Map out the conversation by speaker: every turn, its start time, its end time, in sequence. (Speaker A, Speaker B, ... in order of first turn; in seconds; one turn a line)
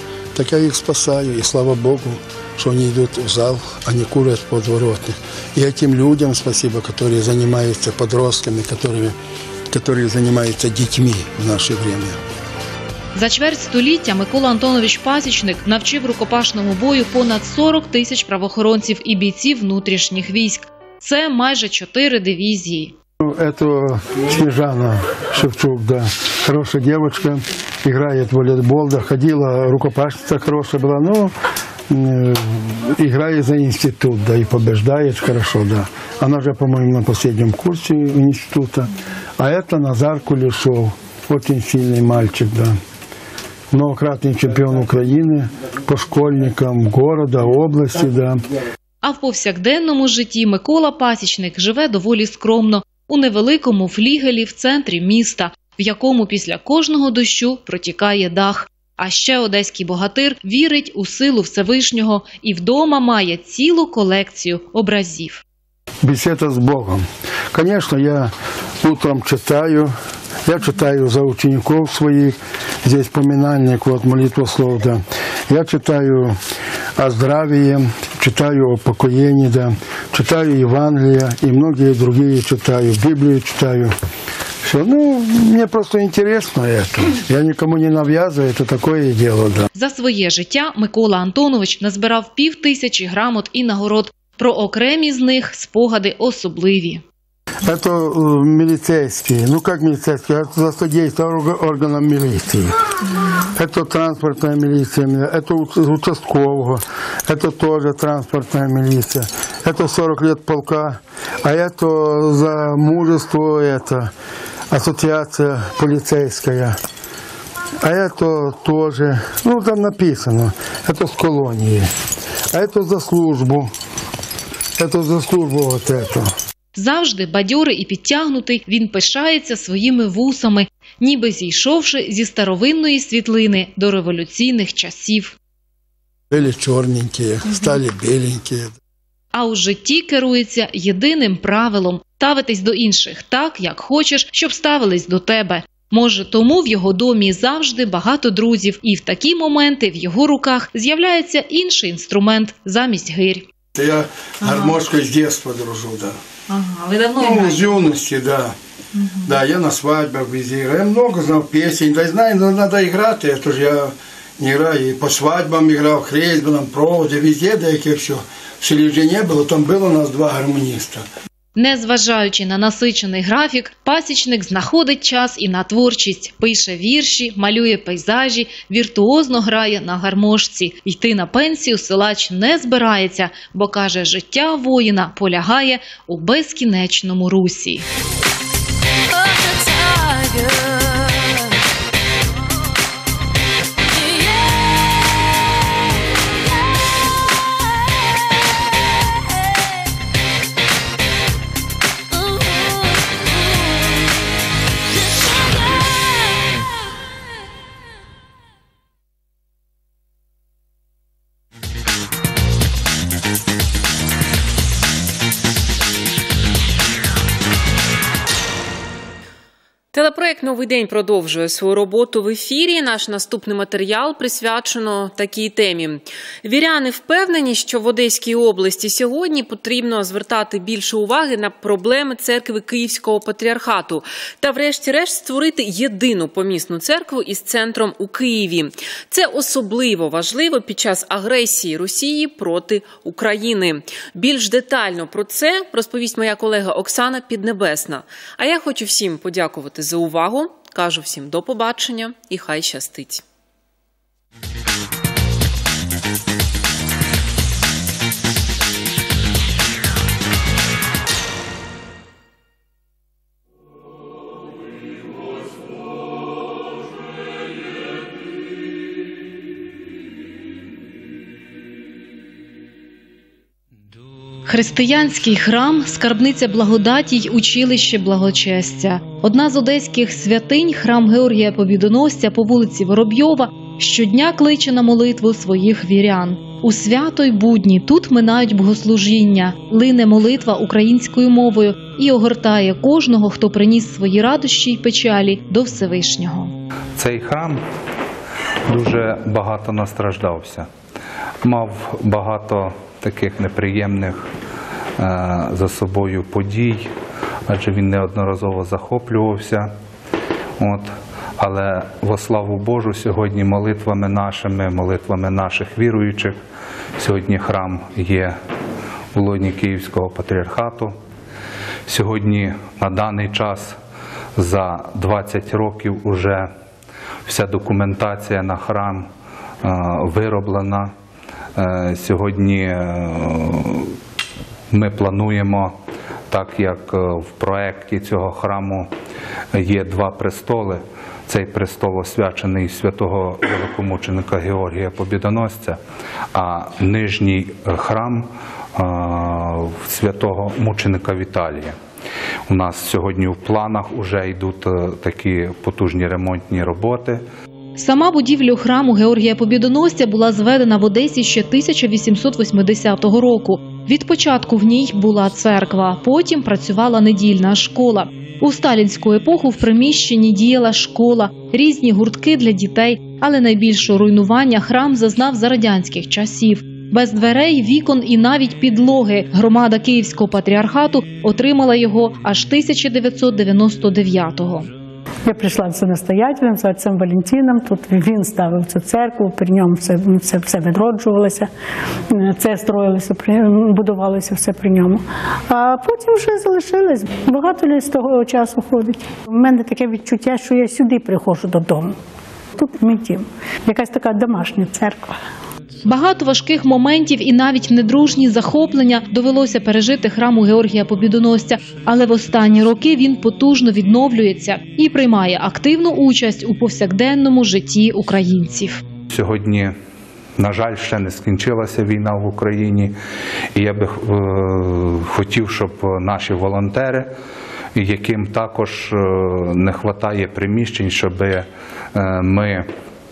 Speaker A: 0.3-9.2
Speaker A: 9.7-12.2
Speaker B: 13.1-22.9
Speaker A: 23.2-31.3
Speaker A: 31.9-42.8
Speaker A: 43.7-48.4
Speaker B: 49.0-65.4
Speaker A: 66.0-69.9
Speaker A: 70.4-76.4
Speaker A: 77.0-83.9
Speaker A: 84.6-89.7
Speaker B: 89.7-97.0
Speaker A: 97.6-102.8
Speaker A: 103.4-114.1
Speaker A: 114.7-116.8
Speaker A: 117.8-121.9
Speaker A: 122.5-123.7
Speaker A: 124.8-126.3
Speaker B: 126.7-135.3
Speaker A: 136.3-138.8
Speaker B: 139.3-153.4
Speaker A: 153.7-156.2
Speaker B: 154.4-154.8
Speaker B: 156.5-157.6
Speaker A: 157.2-158.6
Speaker B: 158.9-159.3
Speaker A: 159.2-171.1
Speaker B: 171.5-187.9
Speaker C: 219.9-253.2
Speaker B: 274.5-296.5
Speaker D: 296.9-297.6
Speaker D: 298.7-300.7
Speaker D: 301.4-304.3
Speaker D: 305.0-306.9
Speaker D: 307.5-309.7
Speaker D: 310.6-316.4
Speaker D: 317.0-318.4
Speaker D: 319.1-320.9
Speaker D: 321.9-323.8
Speaker D: 324.4-326.5
Speaker D: 327.2-329.1
Speaker D: 329.6-330.9
Speaker D: 331.6-333.9
Speaker D: 334.7-335.7
Speaker D: 336.3-338.9
Speaker D: 339.5-345.8
Speaker D: 346.3-351.7
Speaker D: 352.5-357.2
Speaker B: 357.8-384.7
Speaker E: 385.2-391.5
Speaker E: 392.1-401.9
Speaker E: 402.6-405.2
Speaker B: 405.8-418.8
Speaker D: 419.1-419.7
Speaker D: 420.4-422.9
Speaker D: 423.5-427.1
Speaker D: 427.7-432.7